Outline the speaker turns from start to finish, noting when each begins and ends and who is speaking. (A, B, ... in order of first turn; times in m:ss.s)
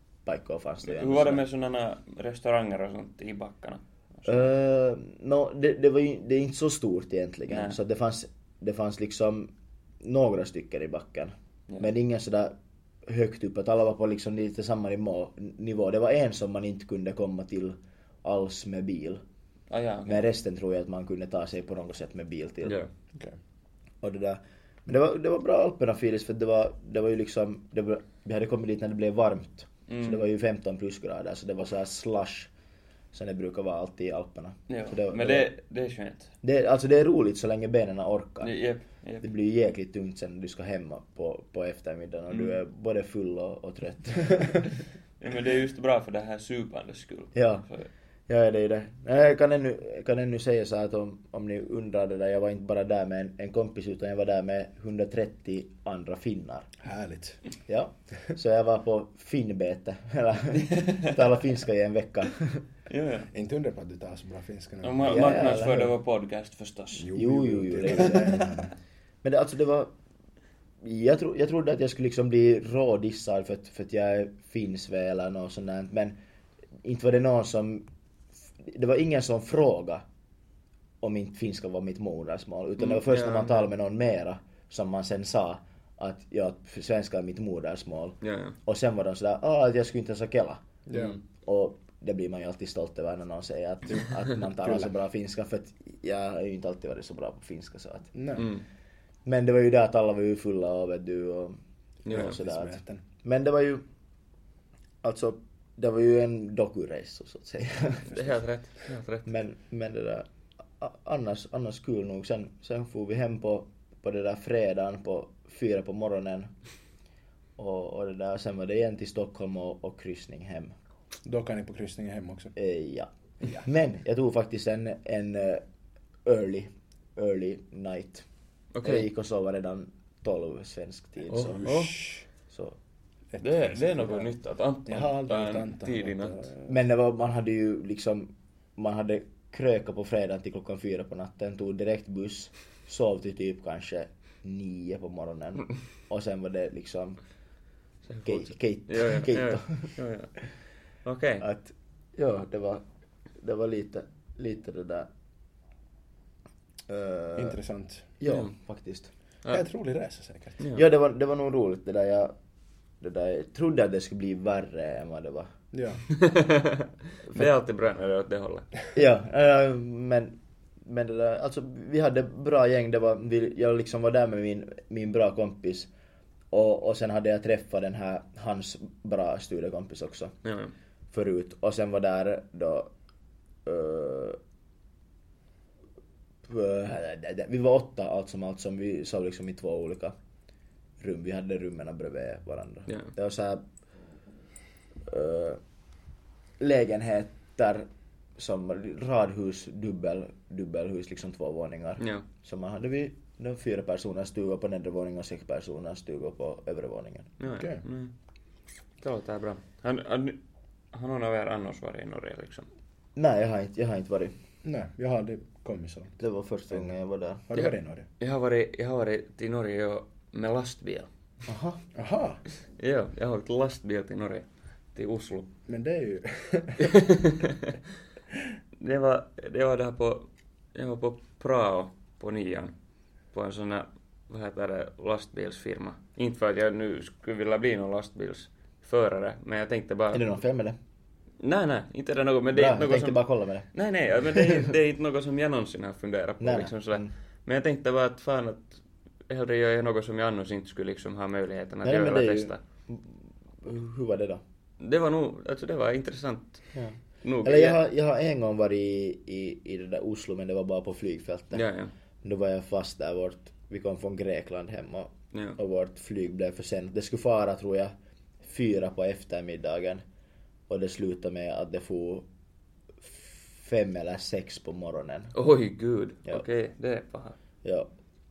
0:00.2-0:01.4 A
0:00.8-0:04.5 B
0:04.2-0:12.5 A
0:07.5-0:07.8 B
0:13.0-0:19.2 A
0:19.7-0:20.2 B
0:20.0-0:22.8 A
0:24.0-0:32.5 A
0:29.9-0:30.2 B
0:33.1-0:35.5 A
0:34.7-0:36.3 B
0:36.4-0:38.5 A
0:38.4-0:39.2 B
0:39.2-0:44.6 A
0:45.2-0:47.9 B
0:47.3-0:47.7 A
0:48.3-0:56.7 A
0:56.8-0:57.4 C
0:57.7-1:02.6 A
1:00.7-1:01.1 B
1:02.9-1:03.3 B
1:03.3-1:05.9 C
1:04.8-1:07.1 B
1:05.1-1:05.9 A
1:07.0-1:08.7 C
1:07.1-1:08.5 A
1:09.2-1:09.9 A
1:10.8-1:16.2 A
1:16.8-1:17.8 A
1:18.6-1:20.0 A
1:21.0-1:30.6 A
1:22.8-1:23.7 B
1:28.2-1:28.6 B
1:30.9-1:31.2 C
1:31.4-1:38.1 A
1:34.6-1:34.9 C
1:38.1-1:38.5 C
1:38.4-1:38.6 B
1:39.2-1:43.8 A
1:42.0-1:42.4 B
1:42.1-1:43.0 C
1:45.0-1:48.1 A
1:48.1-1:49.3 B
1:49.2-1:50.2 A
1:50.8-1:56.5 A
1:57.6-2:00.7 A
2:01.2-2:02.5 C
2:02.6-2:05.6 A
2:06.2-2:08.2 A
2:08.7-2:09.1 B
2:08.8-2:11.6 A
2:11.3-2:12.2 C
2:11.4-2:12.0 B
2:12.5-2:12.8 A
2:13.3-2:14.3 C
2:13.4-2:16.4 B
2:14.9-2:16.7 C
2:16.6-2:27.2 A
2:28.0-2:30.4 B
2:28.2-2:29.9 A
2:31.0-2:31.4 B
2:31.4-2:32.8 A
2:33.4-2:35.1 A
2:36.9-2:37.6 A
2:37.4-2:38.1 C
2:38.2-2:39.1 A
2:39.5-2:40.6 C
2:40.7-2:42.3 A
2:43.0-2:45.5 A
2:45.7-2:46.0 C
2:46.1-2:48.7 B
2:48.9-2:55.9 A
2:56.5-3:00.4 A
3:00.4-3:00.7 B
3:01.1-3:02.9 A
3:03.6-3:04.4 A
3:06.4-3:10.1 A
3:11.0-3:13.6 A
3:15.0-3:15.6 A
3:16.6-3:27.3 A
3:27.4-3:28.1 B
3:27.5-3:27.8 C
3:29.0-3:30.4 B
3:30.9-3:32.7 B
3:33.2-3:34.3 A
3:34.6-3:36.1 C
3:36.2-3:37.5 A
3:37.5-3:38.0 C
3:37.5-3:41.1 B
3:41.5-3:41.8 A
3:41.9-3:42.4 C
3:42.8-3:45.5 B
3:45.7-3:46.9 C
3:46.8-3:47.8 B
3:48.8-3:52.7 B
3:53.3-4:00.2 B
4:00.1-4:00.8 A
4:01.4-4:03.2 B
4:02.5-4:03.7 A
4:03.7-4:12.6 B
4:04.3-4:04.7 A
4:06.4-4:07.1 A
4:11.8-4:14.4 A
4:14.8-4:16.7 B
4:16.7-4:21.6 A
4:17.2-4:17.8 B
4:21.5-4:21.9 B
4:22.2-4:30.0 A
4:25.3-4:25.6 B
4:30.7-4:32.2 A
4:33.0-4:35.3 A
4:35.3-4:37.4 B
4:37.6-4:37.9 A